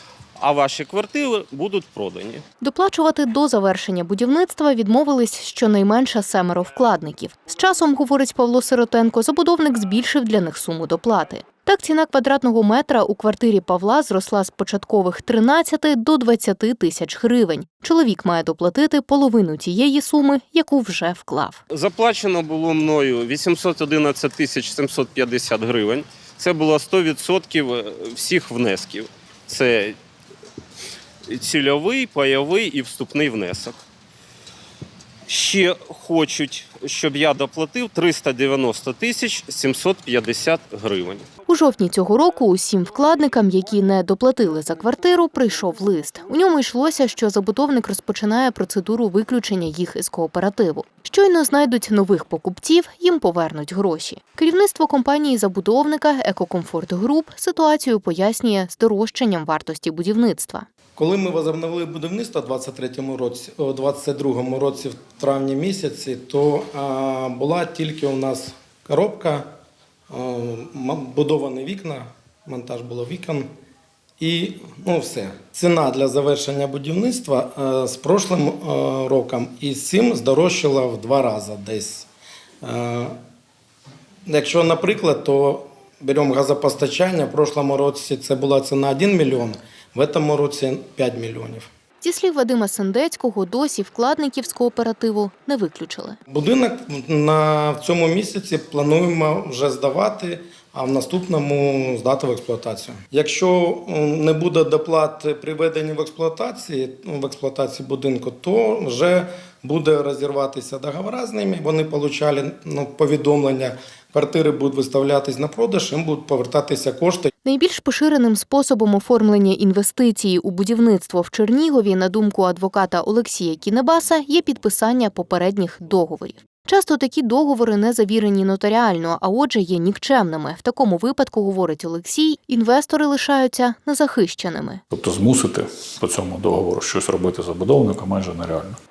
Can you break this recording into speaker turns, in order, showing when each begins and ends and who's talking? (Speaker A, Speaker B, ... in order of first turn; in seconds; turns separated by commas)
Speaker A: 0.4-2.4, Speaker B: 2.6-21.6, Speaker A: 21.7-30.0, Speaker A: 31.3-33.8, Speaker A: 35.3-41.3, Speaker B: 41.5-60.6, Speaker C: 61.0-69.5, Speaker C: 70.1-73.5, Speaker C: 74.2-82.1, Speaker C: 82.6-83.2, Speaker C: 84.3-91.7, Speaker B: 92.0-96.2, Speaker C: 96.3-117.3, Speaker B: 117.4-134.8, Speaker D: 134.9-138.8